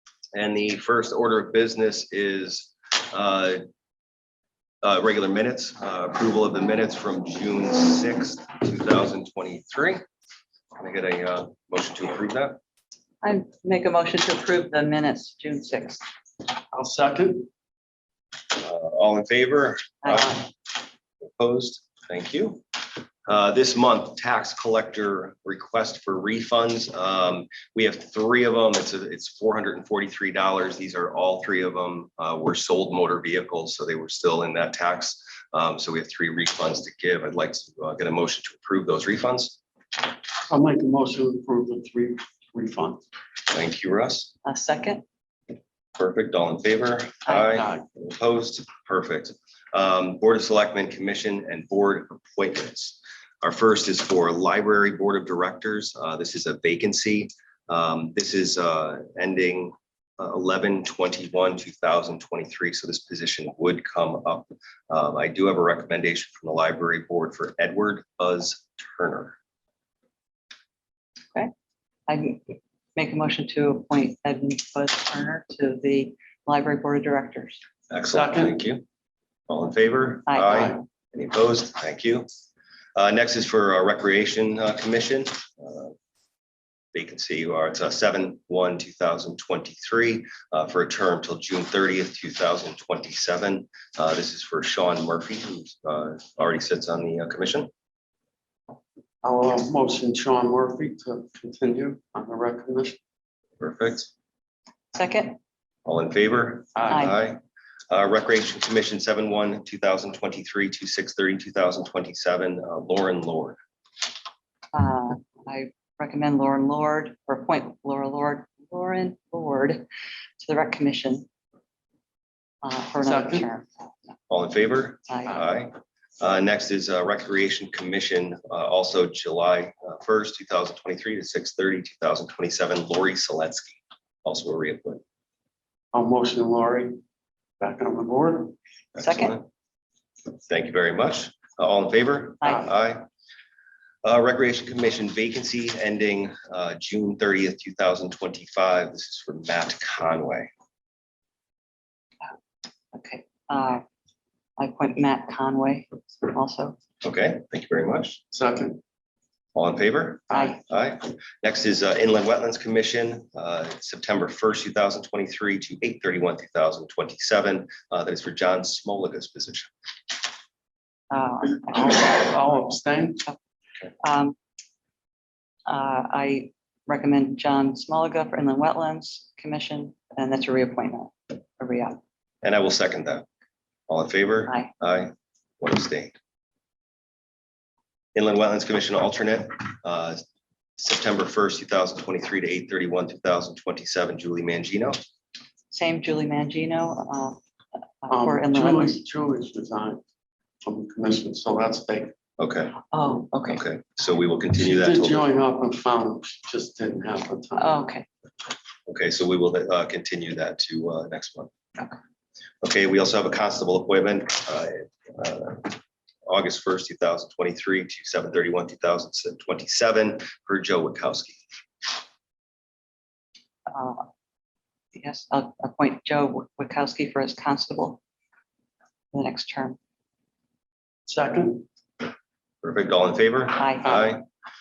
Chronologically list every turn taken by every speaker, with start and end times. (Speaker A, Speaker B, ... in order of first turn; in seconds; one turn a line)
Speaker A: 0.3-3.6
Speaker A: 4.8-10.0
Speaker A: 10.8-12.6
Speaker B: 13.2-16.0
Speaker C: 16.7-17.5
Speaker A: 18.5-20.6
Speaker A: 21.2-39.6
Speaker C: 40.5-43.0
Speaker A: 43.5-44.3
Speaker B: 44.5-45.0
Speaker A: 46.0-69.4
Speaker C: 47.3-47.9
Speaker B: 72.1-77.6
Speaker A: 77.9-78.8
Speaker C: 78.1-78.6
Speaker A: 79.5-82.3
Speaker B: 80.3-80.7
Speaker A: 83.0-86.0
Speaker A: 86.9-97.7
Speaker C: 99.2-103.0
Speaker A: 103.6-104.1
Speaker B: 104.9-105.4
Speaker A: 105.8-113.6
Speaker C: 106.8-107.1
Speaker B: 106.9-107.2
Speaker B: 114.7-119.8
Speaker B: 120.4-121.3
Speaker B: 122.6-123.8
Speaker C: 123.0-123.5
Speaker A: 124.3-135.0
Speaker B: 125.1-125.4
Speaker C: 135.9-137.0
Speaker C: 137.6-138.6
Speaker A: 138.9-139.4
Speaker B: 139.0-139.3
Speaker A: 140.5-143.0
Speaker B: 142.4-142.7
Speaker A: 144.0-150.5
Speaker B: 152.9-153.8
Speaker B: 154.6-156.8
Speaker A: 157.0-158.2
Speaker C: 158.3-158.8
Speaker A: 159.6-169.7
Speaker C: 160.3-160.6
Speaker B: 160.3-160.6
Speaker B: 171.1-172.3
Speaker C: 171.7-173.2
Speaker B: 174.0-174.3
Speaker B: 175.7-182.0
Speaker A: 182.4-183.3
Speaker A: 183.9-186.1
Speaker A: 188.2-190.2
Speaker A: 190.8-195.0
Speaker B: 195.7-197.4
Speaker B: 198.0-199.0
Speaker C: 198.1-200.0
Speaker C: 200.6-202.1
Speaker A: 202.4-202.8
Speaker B: 202.9-203.6
Speaker A: 203.4-205.3
Speaker C: 204.6-207.8
Speaker B: 207.6-208.1
Speaker A: 208.9-211.5
Speaker A: 212.6-221.4
Speaker B: 223.7-224.1
Speaker B: 224.9-228.0
Speaker B: 229.1-229.8
Speaker C: 231.1-231.7
Speaker A: 232.6-234.2
Speaker B: 233.6-234.0